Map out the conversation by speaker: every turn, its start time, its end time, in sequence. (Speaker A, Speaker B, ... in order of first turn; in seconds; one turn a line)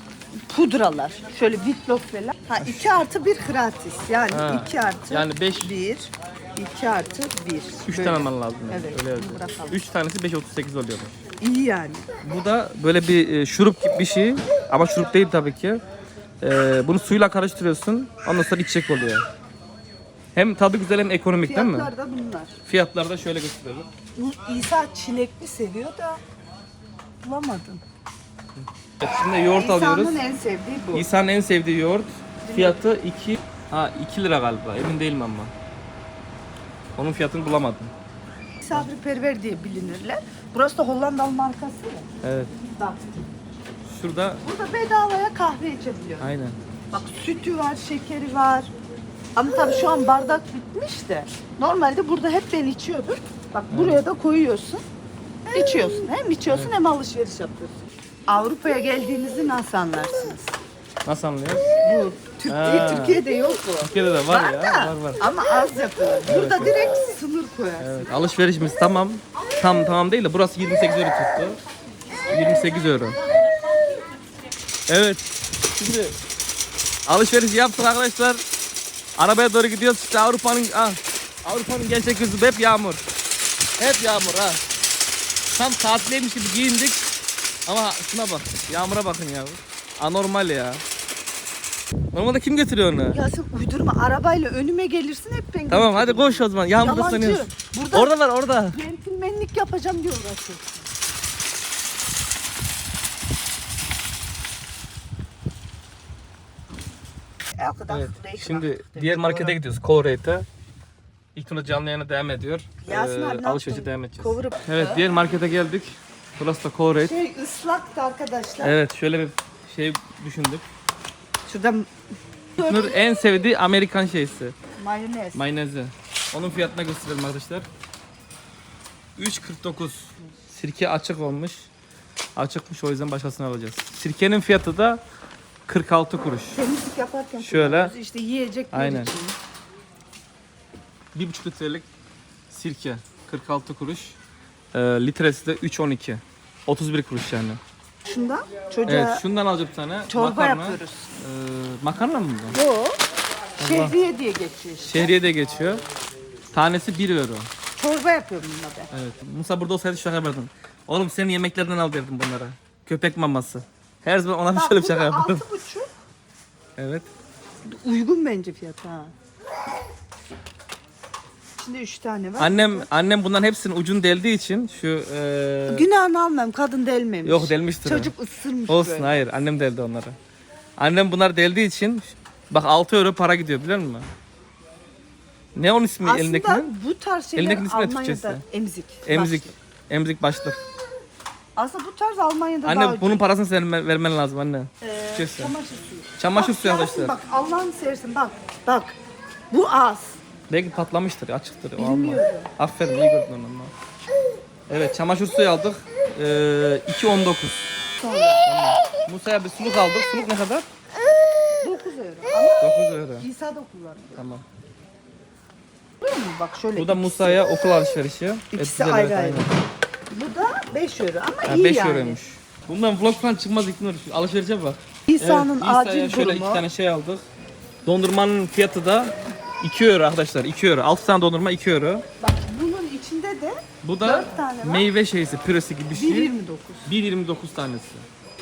Speaker A: 0.5-9.8
Speaker B: 2.6-3.0
Speaker B: 4.3-5.7
Speaker B: 7.8-11.2
Speaker A: 11.4-12.1
Speaker B: 12.2-15.8
Speaker B: 16.4-19.2
Speaker B: 20.4-21.9
Speaker A: 21.4-22.6
Speaker B: 22.6-23.9
Speaker A: 24.2-26.2
Speaker A: 27.2-27.8
Speaker B: 28.6-30.2
Speaker A: 29.6-31.1
Speaker B: 30.9-35.5
Speaker A: 32.4-32.8
Speaker B: 37.0-37.9
Speaker A: 38.6-42.1
Speaker B: 42.2-42.5
Speaker A: 42.6-43.3
Speaker B: 43.9-44.4
Speaker A: 44.4-46.3
Speaker B: 46.2-46.6
Speaker A: 46.9-48.7
Speaker A: 49.4-54.9
Speaker B: 53.7-54.0
Speaker A: 55.5-60.6
Speaker B: 56.5-56.7
Speaker B: 61.0-61.7
Speaker A: 61.8-68.1
Speaker B: 62.5-63.2
Speaker B: 63.8-65.2
Speaker B: 66.2-66.8
Speaker B: 67.8-71.6
Speaker B: 72.3-73.2
Speaker B: 74.9-75.2
Speaker B: 75.8-76.2
Speaker B: 77.1-78.4
Speaker B: 79.2-83.0
Speaker B: 83.8-84.6
Speaker B: 85.5-87.0
Speaker B: 87.7-90.8
Speaker B: 92.1-93.2
Speaker A: 93.0-98.2
Speaker B: 95.7-98.8
Speaker A: 98.7-100.9
Speaker A: 107.5-109.6
Speaker B: 107.9-110.5
Speaker B: 111.3-117.1
Speaker A: 112.8-115.1
Speaker A: 117.0-118.8
Speaker B: 118.6-120.7
Speaker A: 121.5-121.9
Speaker A: 122.6-123.0
Speaker B: 122.6-124.5
Speaker A: 124.8-125.4
Speaker B: 125.3-127.7
Speaker B: 129.2-131.7
Speaker B: 132.4-135.0
Speaker B: 135.7-136.6
Speaker A: 136.5-139.4
Speaker B: 137.4-137.9
Speaker B: 138.7-139.1
Speaker B: 141.1-141.9
Speaker B: 142.5-144.2
Speaker B: 144.7-147.6
Speaker A: 148.1-149.2
Speaker B: 148.9-152.6
Speaker A: 150.1-151.1
Speaker A: 152.5-153.0
Speaker B: 153.6-154.0
Speaker A: 153.6-155.2
Speaker B: 154.9-155.8
Speaker B: 156.5-157.5
Speaker A: 157.8-158.9
Speaker B: 158.9-165.4
Speaker A: 164.6-165.9
Speaker B: 166.8-167.1
Speaker A: 167.7-169.1
Speaker A: 171.6-172.9
Speaker B: 172.4-175.9
Speaker A: 175.7-179.2
Speaker B: 177.2-178.1
Speaker B: 178.7-180.2
Speaker B: 180.8-184.1
Speaker B: 185.6-186.7
Speaker A: 186.0-189.5
Speaker B: 187.4-188.4
Speaker B: 189.1-190.6
Speaker A: 191.6-193.2
Speaker B: 192.7-195.5
Speaker A: 194.8-199.0
Speaker B: 196.2-197.2
Speaker A: 199.5-200.2
Speaker B: 200.5-203.7
Speaker A: 201.8-202.5
Speaker B: 204.7-207.7
Speaker A: 208.0-208.5
Speaker B: 208.4-210.7
Speaker A: 211.6-214.2
Speaker B: 212.6-213.3
Speaker B: 214.2-214.4
Speaker A: 216.0-217.5
Speaker B: 216.8-219.5
Speaker A: 218.5-219.5
Speaker A: 220.1-222.2
Speaker B: 221.4-227.3
Speaker A: 225.1-226.7
Speaker B: 227.8-232.0
Speaker A: 232.2-234.9
Speaker B: 233.8-236.3
Speaker A: 235.9-236.9
Speaker B: 236.9-238.1